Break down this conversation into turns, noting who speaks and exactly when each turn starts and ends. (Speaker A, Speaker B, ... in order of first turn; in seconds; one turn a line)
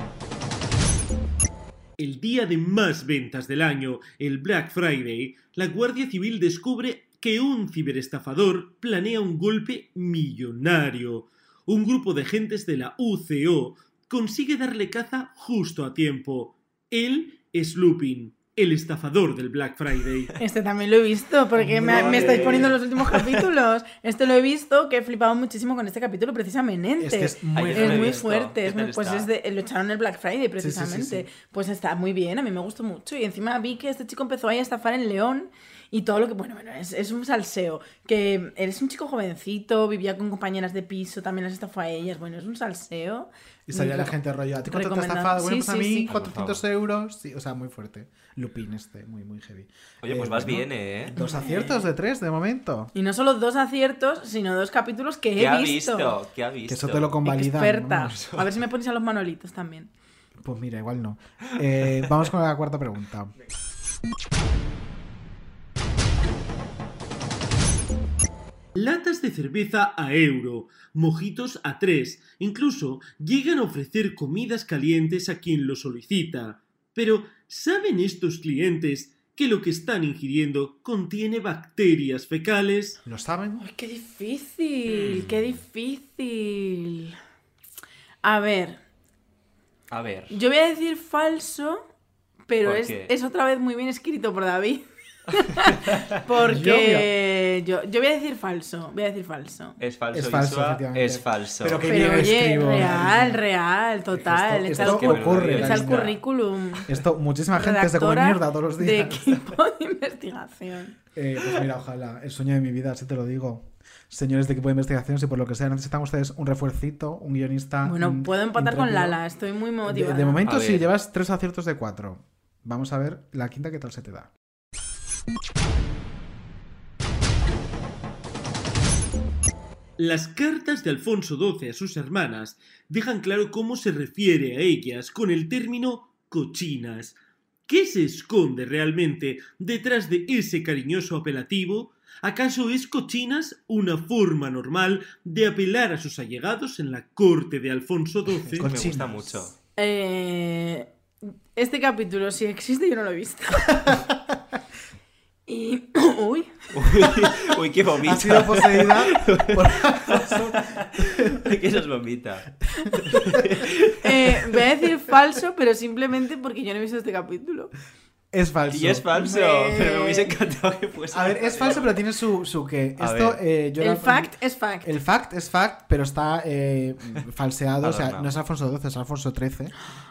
Speaker A: 2.0-20.4
Speaker B: 20.4-44.1
Speaker C: 21.6-22.8
Speaker D: 21.8-22.8
Speaker C: 27.0-28.2
Speaker D: 27.5-29.3
Speaker C: 30.6-31.2
Speaker C: 43.7-52.9
Speaker B: 44.7-46.1
Speaker D: 46.1-46.6
Speaker D: 50.0-51.1
Speaker B: 51.2-51.8
Speaker B: 53.0-56.1
Speaker D: 55.4-57.2
Speaker C: 56.7-58.1
Speaker B: 57.2-59.9
Speaker D: 58.0-58.5
Speaker C: 60.4-63.3
Speaker A: 68.7-83.0
Speaker C: 83.0-83.6
Speaker B: 83.6-87.2
Speaker D: 84.9-85.6
Speaker B: 88.2-88.8
Speaker D: 89.9-90.4
Speaker B: 90.3-91.8
Speaker B: 92.5-99.8
Speaker D: 92.6-93.1
Speaker C: 96.4-97.1
Speaker D: 99.8-102.0
Speaker C: 100.1-103.4
Speaker B: 101.9-106.9
Speaker C: 104.2-106.2
Speaker D: 104.8-106.1
Speaker C: 106.9-109.4
Speaker B: 107.5-111.0
Speaker C: 111.2-119.2
Speaker B: 117.8-120.4
Speaker C: 119.9-124.3
Speaker D: 120.5-120.9
Speaker A: 130.0-148.7
Speaker D: 148.5-149.5
Speaker C: 148.6-149.5
Speaker B: 149.8-150.9
Speaker B: 151.6-154.0
Speaker B: 155.5-156.5
Speaker D: 156.7-164.4
Speaker C: 158.0-161.4
Speaker C: 162.9-163.4
Speaker B: 164.0-167.7
Speaker C: 168.3-169.1
Speaker D: 168.7-172.0
Speaker B: 169.2-170.3
Speaker C: 171.1-174.3
Speaker D: 173.0-173.4
Speaker B: 173.8-174.9
Speaker C: 174.8-179.7
Speaker D: 177.8-178.3